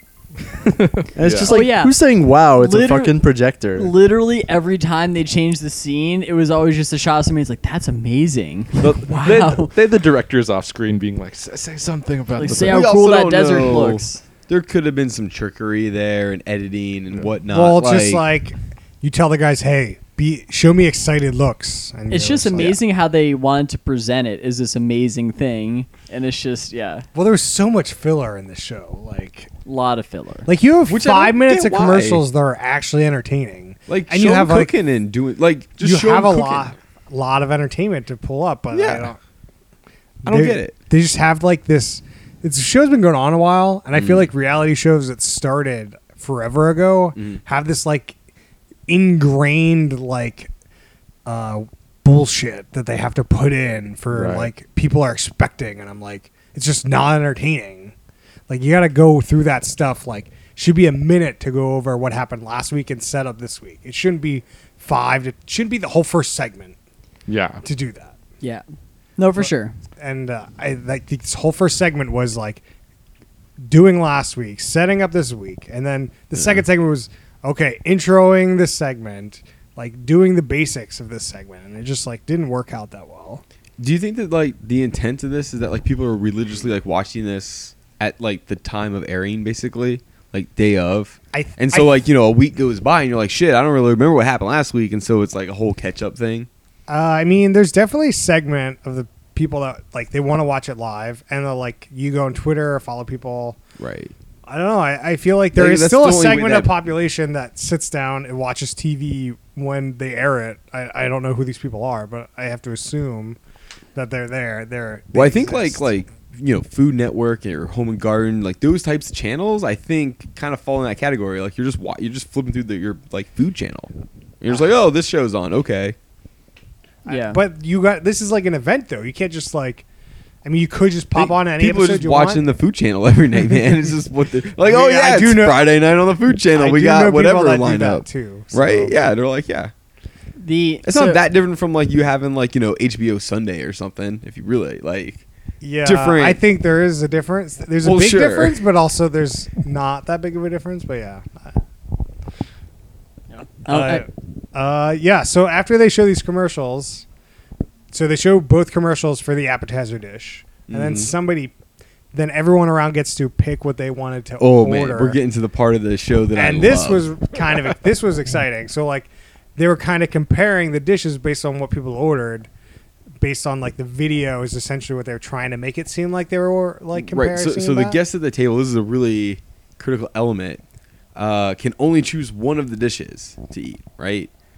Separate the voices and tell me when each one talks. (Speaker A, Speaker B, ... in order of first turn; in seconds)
Speaker A: 0.6-1.6, 8.8-12.9, 54.1-54.5, 67.3-67.6
Speaker B: 1.1-3.9
Speaker C: 1.4-3.2, 3.8-9.7, 12.3-14.2, 22.1-27.0, 29.6-30.5, 69.2-69.8, 127.1-127.4, 140.4-141.2, 153.3-154.0
Speaker D: 12.5-18.2, 30.9-32.2, 33.9-36.7, 38.7-39.1, 40.2-40.8, 43.9-44.3, 47.1-47.4, 83.8-96.5, 103.8-104.1, 105.5-106.7, 115.1-123.9, 124.4-125.9, 131.1-139.7, 140.8-145.2, 145.8-146.4, 147.8-148.6, 160.7-161.1, 164.4-167.1, 176.9-180.6, 181.1-184.3
Speaker E: 17.5-22.8, 27.1-29.5, 30.4-34.7, 35.8-39.2, 40.2-48.1, 48.9-50.5, 51.2-57.9, 58.5-66.7, 67.6-68.1, 69.4-72.6, 73.6-83.4, 91.3-92.0, 96.9-103.6, 104.5-113.4, 113.9-115.9, 127.0-129.8, 130.4-132.5, 134.6-135.7, 136.5-139.0, 145.6-151.5, 153.7-157.0, 157.9-161.5, 162.1-165.2, 166.3-172.5, 173.2-178.0